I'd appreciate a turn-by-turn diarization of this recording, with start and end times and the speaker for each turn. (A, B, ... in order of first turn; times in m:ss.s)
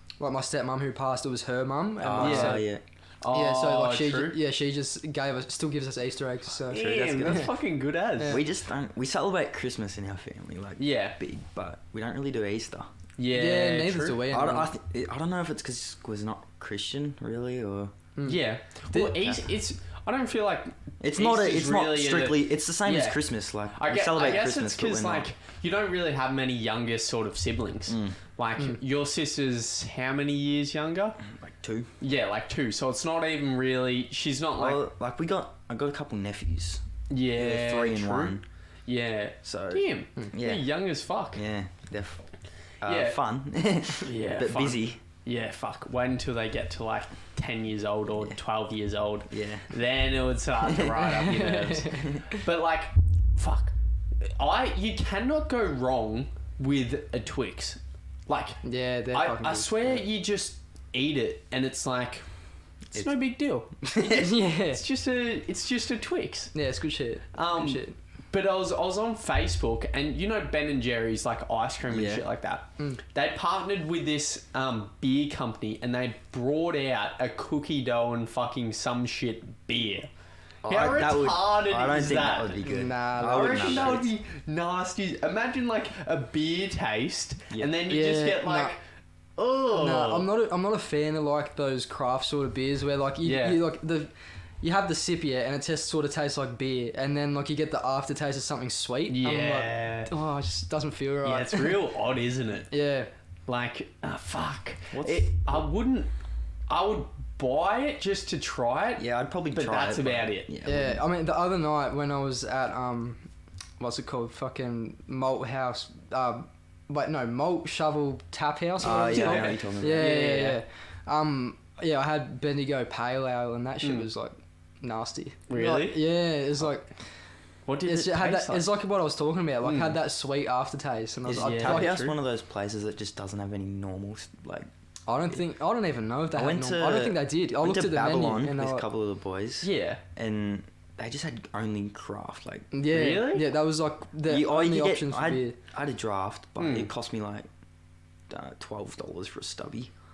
0:00.2-0:02.7 A
0:02.0-0:02.8 B
0:02.2-0:02.6 C
0:03.2-0:04.4 C
0:03.3-0:07.5 A
0:06.6-0:08.4 C
0:06.7-0:07.5 B
0:08.2-0:12.9 B
0:10.8-0:11.2 C
0:13.2-0:14.2 C
0:13.3-0:14.7 A
0:14.3-0:18.0 B
0:18.2-0:19.2 A
0:18.2-0:31.2 C
0:21.0-0:25.3 B
0:27.9-0:28.2 B
0:31.2-0:31.9 B
0:32.0-0:34.8 C
0:34.6-0:36.8 B
0:37.1-0:41.4 C
0:37.4-0:38.4 B
0:39.4-0:40.7 B
0:41.3-0:42.3 B
0:42.8-0:45.0 B
0:42.8-0:43.2 C
0:44.0-0:58.6 C
0:49.3-0:49.7 B
0:51.0-0:52.4 A
0:58.6-1:00.0 A
0:59.1-1:02.3 C
1:02.9-1:06.5 C
1:03.8-1:04.3 B
1:04.1-1:04.8 A
1:06.5-1:08.0 A
1:07.3-1:20.1 C
1:11.9-1:12.2 B
1:20.6-1:24.1 B
1:20.7-1:22.6 C
1:22.6-1:24.0 A
1:23.2-1:28.8 C
1:27.9-1:28.7 A
1:29.4-1:30.3 C
1:29.7-1:41.8 A
1:33.2-1:33.6 C
1:39.1-1:40.1 C
1:41.2-1:42.7 C
1:42.7-1:43.1 A
1:43.5-1:46.1 C
1:44.9-1:45.6 B
1:46.7-1:50.5 C
1:49.0-1:51.0 B
1:50.6-1:53.3 A
1:53.8-2:06.9 A
1:58.8-2:00.2 B
1:58.9-2:00.6 C
2:03.8-2:04.1 C
2:05.5-2:06.0 C
2:07.7-2:08.7 C
2:07.9-2:12.0 A
2:09.6-2:10.0 C
2:11.3-2:14.7 B
2:11.4-2:12.2 C
2:15.1-2:18.8 A
2:16.3-2:22.7 B
2:19.6-2:20.0 C
2:22.7-2:25.6 A
2:22.9-2:23.5 C
2:24.3-2:27.5 B
2:26.6-2:26.9 C
2:28.3-2:29.9 B